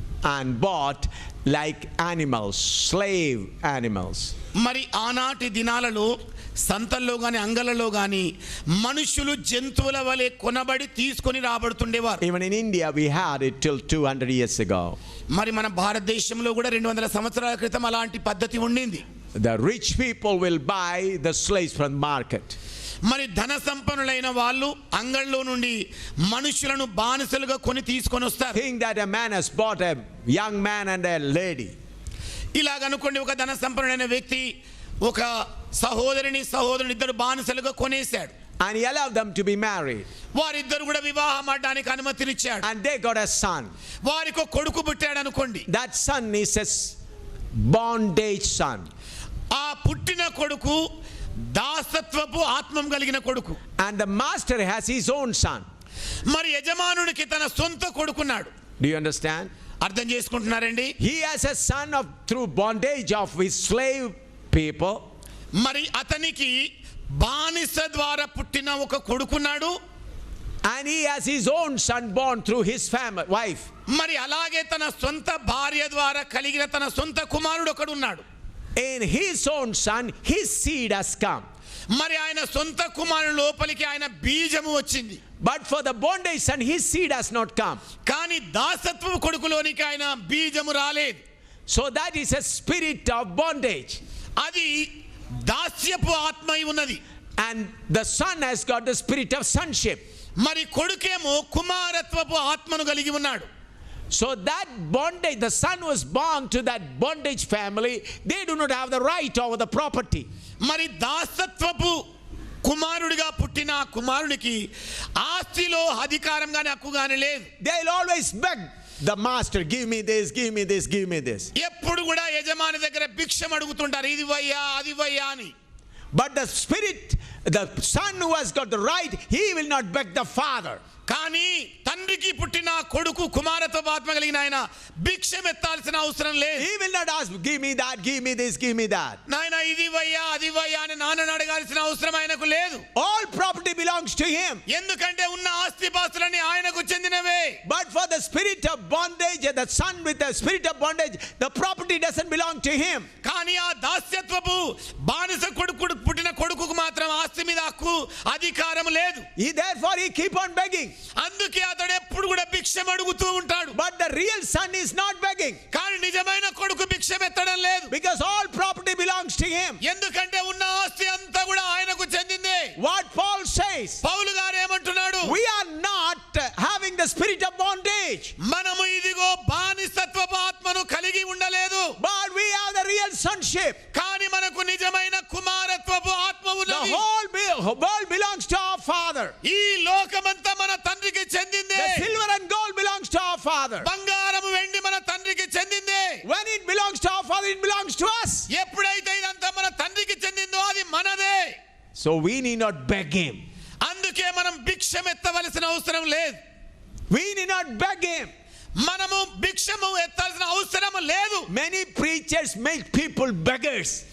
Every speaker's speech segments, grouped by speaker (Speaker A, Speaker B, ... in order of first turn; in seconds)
Speaker A: 0.2-4.3, 12.2-15.0, 19.4-22.6, 28.5-31.7, 38.6-40.1, 42.6-43.7, 45.7-47.0, 47.5-48.9, 53.8-55.7, 58.8-59.5, 61.0-65.0, 70.7-73.7, 78.8-81.5, 85.4-87.8, 91.7-94.0, 97.4-100.0, 104.1-110.3, 117.6-121.5, 126.1-130.8, 136.6-139.2, 142.9-144.6, 147.7-153.1, 159.4-160.9, 163.7-165.6, 167.9-169.8, 172.8-174.0, 175.2-178.3, 182.0-183.8, 186.7-189.3, 191.8-193.9, 196.2-198.5, 202.0-203.4, 207.1-208.3, 211.5-214.0
Speaker B: 4.6-12.2, 15.3-19.1, 23.1-28.6, 32.5-34.5, 35.0-38.3, 40.4-42.7, 44.0-45.7, 49.5-50.8, 51.5-53.6, 56.3-58.5, 59.8-60.9, 65.6-66.6, 67.2-69.8, 73.9-78.2, 81.9-85.2, 88.1-91.2, 94.4-94.9, 95.5-97.0, 100.4-103.5, 110.6-112.0, 112.6-114.7, 115.2-117.5, 121.6-125.5, 131.1-136.7, 139.3-142.8, 144.7-147.6, 153.2-159.3, 161.2-163.8, 165.7-167.9, 169.8-172.8, 174.0-175.4, 178.4-181.9, 183.9-187.0, 189.4-192.1, 193.8-196.2, 198.5-201.6, 203.8-206.4, 208.8-211.5